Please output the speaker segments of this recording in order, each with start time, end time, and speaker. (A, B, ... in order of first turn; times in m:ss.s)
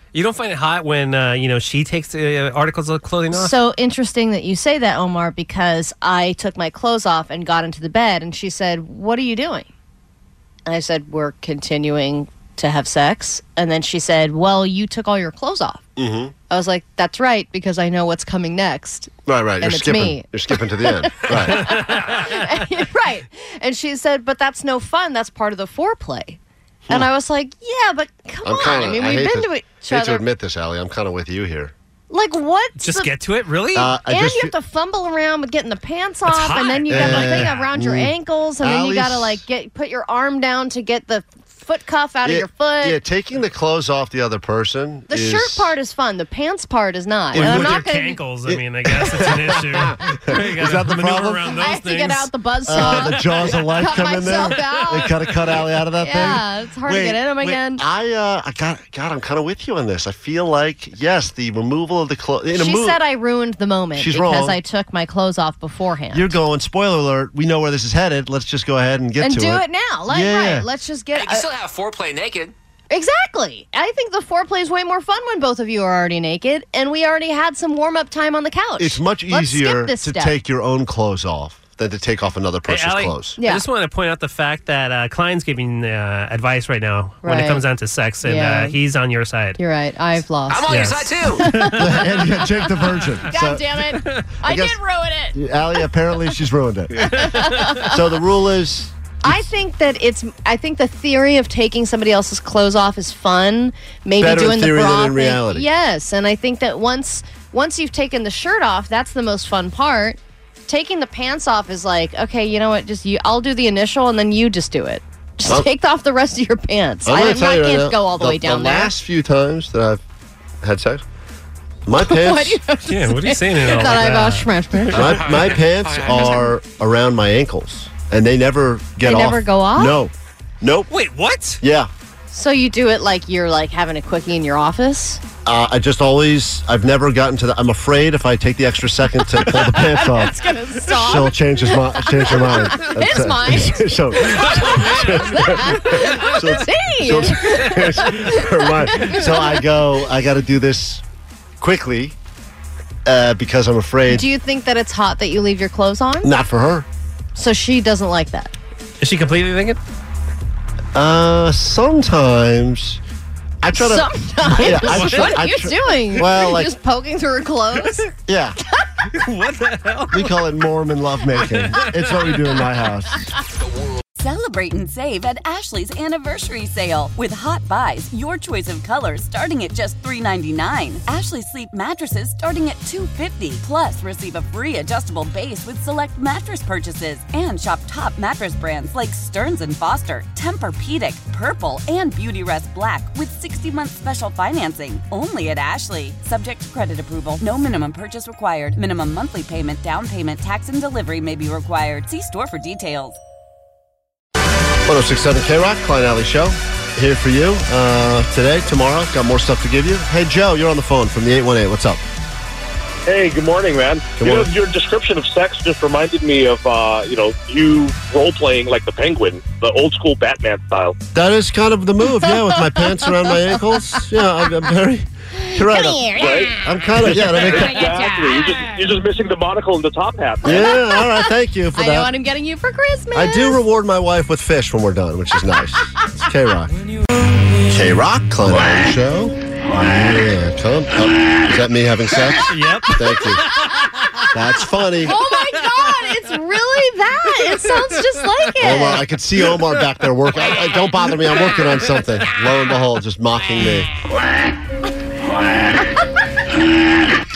0:00.1-0:03.6 A
0:03.3-0:09.7 B
0:10.7-0:15.8 B
0:16.0-0:16.3 C
0:16.5-0:30.2 B
0:19.3-0:21.9 C
0:21.6-0:22.5 A
0:28.4-0:31.7 C
0:32.1-0:33.1 B
0:32.8-0:33.9 A
0:33.7-0:34.5 C
0:34.1-0:43.0 B
0:36.3-0:37.6 A
0:36.9-0:39.4 C
0:42.2-0:45.7 C
0:45.1-0:48.2 B
0:47.3-0:53.8 A
0:47.3-0:47.8 C
0:48.4-0:51.6 C
0:51.6-0:55.2 B
0:52.7-1:03.0 C
0:56.0-0:57.8 B
1:02.5-1:06.3 B
1:04.0-1:04.6 C
1:06.1-1:10.7 C
1:09.2-1:11.5 B
1:11.1-1:12.5 D
1:12.9-1:20.4 B
1:18.8-1:23.4 C
1:22.7-1:29.6 A
1:23.4-1:23.6 B
1:27.2-1:27.6 B
1:28.2-1:28.8 B
1:29.6-1:30.6 B
1:30.5-1:31.5 D
1:30.7-1:32.0 A
1:31.2-1:32.7 B
1:31.8-1:34.8 C
1:33.2-1:35.4 B
1:35.3-1:39.5 C
1:37.0-1:38.0 B
1:37.2-1:37.7 A
1:39.2-1:58.9 B
1:44.2-1:45.7 C
1:57.0-2:00.0 C
2:00.6-2:01.0 C
2:01.9-2:02.6 C
2:02.0-2:05.4 B
2:02.9-2:04.5 A
2:04.9-2:10.9 C
2:05.2-2:06.3 D
2:06.1-2:06.4 B
2:09.0-2:10.0 B
2:10.9-2:11.6 A
2:11.6-2:11.9 C
2:12.3-2:15.2 B
2:15.4-2:31.0 C
2:19.4-2:29.6 B
2:24.6-2:26.3 A
2:31.6-2:32.2 C
2:33.0-2:34.3 C
2:34.1-2:36.3 B
2:36.2-2:36.9 C
2:37.4-2:38.5 B
2:39.0-2:39.8 A
2:40.9-2:43.0 C
2:43.6-2:46.7 C
2:43.7-2:48.1 B
2:44.7-2:45.4 A
2:48.3-2:48.6 C
2:49.1-2:50.4 A
2:50.1-2:53.3 C
2:51.4-2:52.4 A
2:54.2-3:23.2 E
3:24.8-3:32.0 C
3:33.1-3:41.0 F
3:34.2-3:34.5 C
3:41.1-3:48.0 C
3:42.2-3:44.0 B
3:45.4-3:48.9 B
3:46.1-3:46.6 F
3:47.1-3:50.7 F
3:50.4-3:52.1 C
3:50.4-3:53.6 B
3:53.1-3:56.7 C
3:57.6-4:03.4 C
4:02.5-4:04.3 A
4:03.0-4:04.0 B
4:04.3-4:05.2 C
4:05.0-4:09.0 B
4:08.6-4:13.9 C